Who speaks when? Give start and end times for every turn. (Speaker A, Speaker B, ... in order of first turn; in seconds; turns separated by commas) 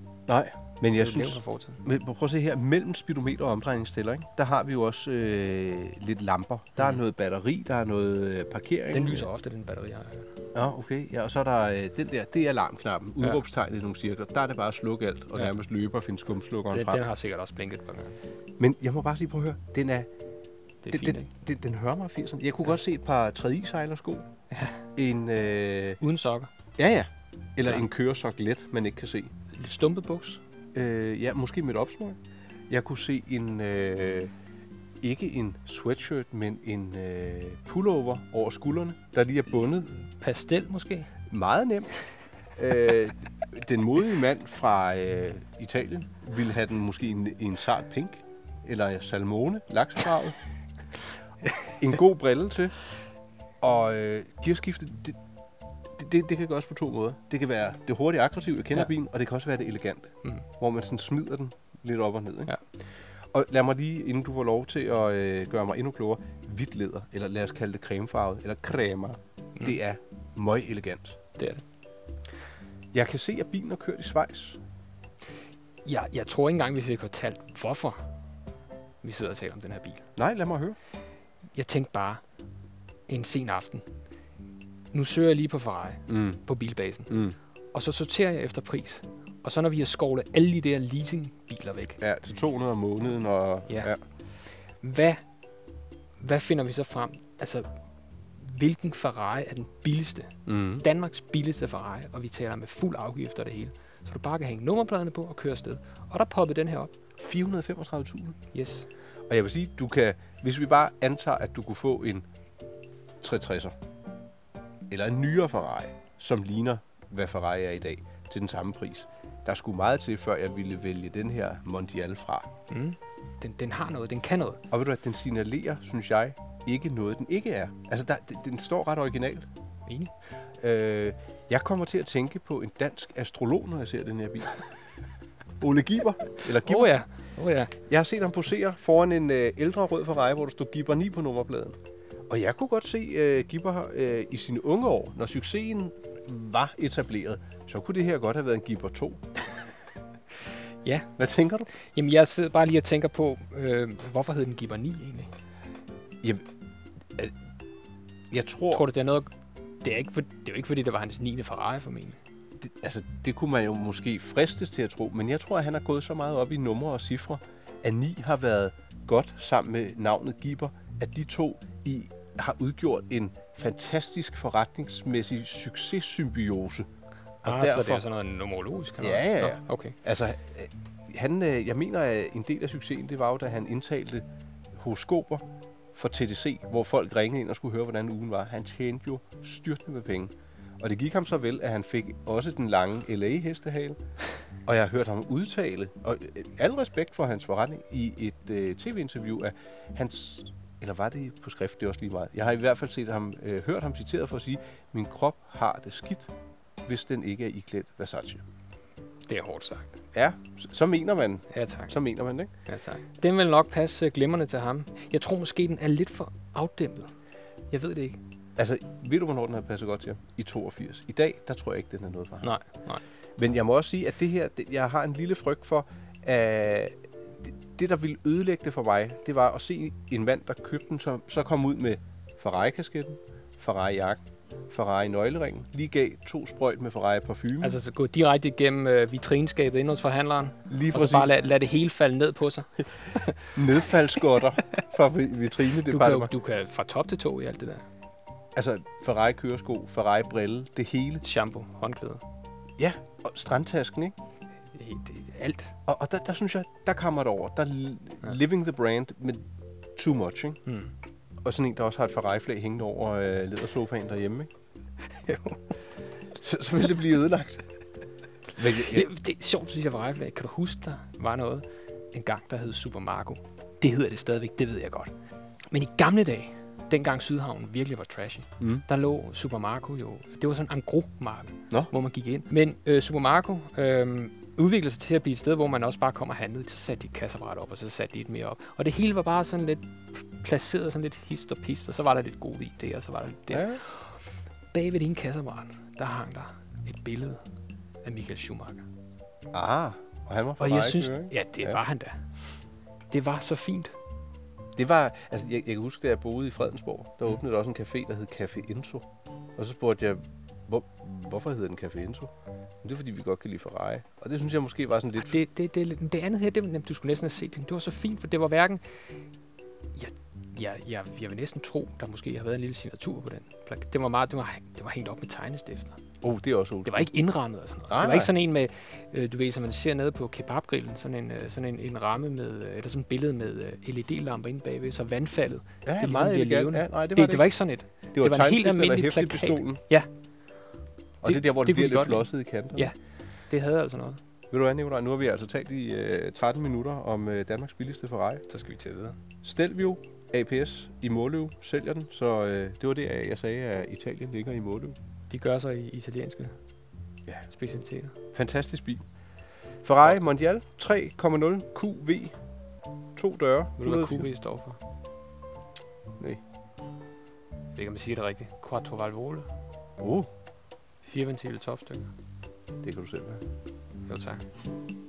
Speaker A: 0.3-9.3, Speaker B: 0.9-1.8, Speaker B: 8.9-10.3, Speaker A: 10.5-17.0, Speaker B: 16.7-18.2, Speaker A: 18.6-20.1, Speaker B: 20.8-21.3, Speaker A: 20.9-24.3, Speaker B: 24.5-24.8, Speaker A: 24.9-26.0, Speaker B: 26.0-26.5, Speaker A: 26.8-29.3, Speaker B: 29.5-30.4, Speaker A: 30.7-32.2, Speaker A: 32.7-34.3, Speaker A: 35.0-39.9, Speaker B: 40.1-41.1, Speaker A: 41.3-42.0, Speaker A: 42.6-50.4, Speaker A: 51.8-52.7, Speaker A: 53.6-55.2, Speaker A: 55.9-62.5, Speaker A: 63.3-71.2, Speaker B: 71.4-71.6, Speaker A: 72.9-74.6, Speaker B: 75.8-78.0, Speaker B: 79.0-80.0, Speaker A: 80.2-80.8, Speaker B: 81.5-82.2, Speaker B: 83.1-83.8, Speaker B: 84.9-87.2, Speaker A: 86.1-86.4, Speaker A: 87.1-87.3, Speaker B: 87.7-92.0, Speaker A: 92.0-94.0, Speaker B: 94.8-95.2, Speaker B: 96.2-97.7, Speaker B: 98.4-106.9, Speaker A: 100.5-100.8, Speaker A: 107.2-108.4, Speaker B: 108.5-108.9, Speaker A: 109.3-112.2, Speaker A: 113.2-113.7, Speaker A: 114.9-122.5, Speaker B: 122.7-124.6, Speaker A: 124.7-129.5, Speaker A: 130.6-134.6, Speaker A: 135.6-137.0, Speaker B: 136.6-137.7, Speaker A: 137.9-141.8, Speaker A: 142.3-149.2, Speaker B: 150.8-151.1, Speaker A: 151.2-151.7, Speaker B: 151.8-155.3, Speaker A: 158.3-158.9, Speaker B: 158.7-159.3, Speaker B: 159.8-162.2, Speaker A: 162.6-176.9, Speaker A: 177.4-178.0, Speaker B: 177.4-180.0, Speaker A: 179.0-184.2, Speaker A: 184.7-185.4, Speaker A: 185.9-194.0, Speaker A: 194.7-206.3, Speaker A: 206.8-208.4, Speaker B: 209.3-210.0, Speaker A: 210.1-212.5, Speaker B: 211.5-212.0, Speaker B: 212.7-217.1, Speaker B: 217.7-218.2, Speaker A: 218.6-222.5, Speaker B: 222.4-223.0, Speaker A: 223.4-237.8, Speaker B: 237.6-243.6, Speaker A: 240.7-241.4, Speaker A: 243.5-246.3, Speaker B: 245.8-247.8, Speaker A: 248.5-251.2, Speaker B: 251.2-252.2, Speaker A: 252.8-254.1, Speaker B: 254.7-255.7, Speaker A: 255.8-259.4, Speaker A: 259.9-260.6, Speaker B: 260.6-260.9, Speaker A: 261.4-264.5, Speaker B: 265.1-265.6, Speaker A: 266.4-267.6, Speaker A: 268.6-269.1, Speaker B: 268.6-275.1, Speaker B: 275.7-294.2, Speaker A: 278.6-278.8, Speaker A: 293.5-293.8, Speaker B: 294.7-297.4, Speaker B: 298.0-298.8, Speaker A: 299.5-301.8, Speaker B: 300.6-302.2, Speaker B: 303.1-303.9, Speaker A: 304.8-309.1, Speaker A: 309.6-312.3, Speaker A: 312.8-315.4, Speaker B: 315.2-318.8, Speaker B: 319.9-326.0, Speaker A: 326.2-327.1, Speaker B: 326.9-340.1, Speaker A: 327.9-328.3, Speaker A: 335.9-337.5, Speaker A: 338.1-339.8, Speaker A: 341.2-342.9, Speaker B: 341.2-342.9, Speaker B: 343.5-344.2, Speaker A: 344.5-348.4, Speaker B: 348.5-349.2, Speaker A: 349.4-354.9, Speaker B: 355.3-356.5, Speaker B: 357.5-358.1, Speaker A: 358.3-359.0, Speaker A: 359.8-362.3, Speaker A: 363.1-364.3, Speaker B: 363.8-364.8, Speaker B: 367.8-369.5, Speaker A: 370.0-370.3, Speaker B: 371.0-372.1, Speaker A: 372.8-373.4, Speaker B: 374.1-374.4